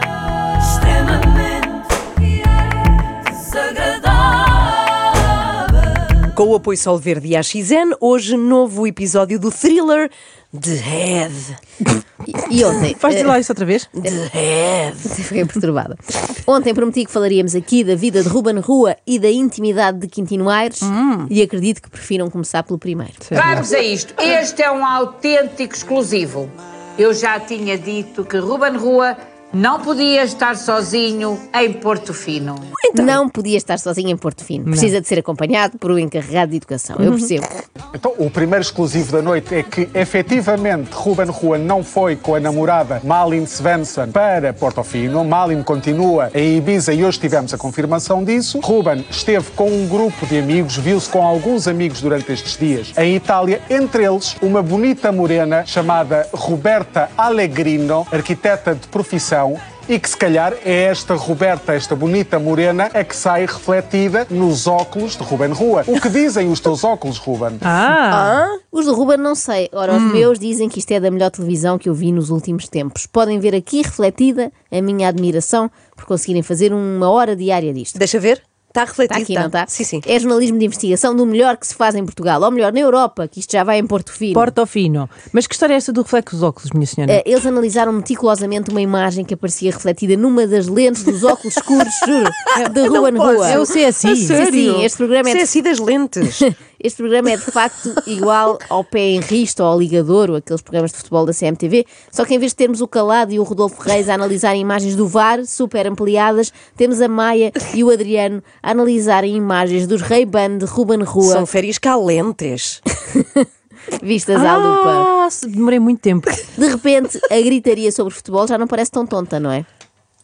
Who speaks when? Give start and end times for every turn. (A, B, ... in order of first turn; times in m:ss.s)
0:01.1-0:01.6 A
0:03.6-0:04.6 A
0:06.3-0:11.6 B
0:12.2-0:13.4 C
0:13.0-0:13.9 A
0:14.0-0:15.1 B
0:15.0-0:23.6 C
0:20.8-0:21.3 A
0:23.3-0:23.6 A
0:23.4-0:32.7 D
0:32.8-0:33.2 B
0:33.0-0:37.5 C
0:34.7-0:34.9 A
0:38.0-1:07.7 E
1:07.6-1:08.3 A
1:08.1-1:08.6 B
1:08.1-1:18.0 C
1:09.9-1:10.3 B
1:18.0-1:20.1 B
1:19.1-1:24.5 C
1:24.3-1:27.2 A
1:27.1-1:33.7 C
1:32.8-1:36.4 B
1:33.4-1:34.4 A
1:34.3-1:35.5 C
1:36.3-1:51.5 C
1:51.2-1:52.8 B
1:54.0-1:55.1 C
1:54.3-1:56.4 A
1:56.6-1:59.7 C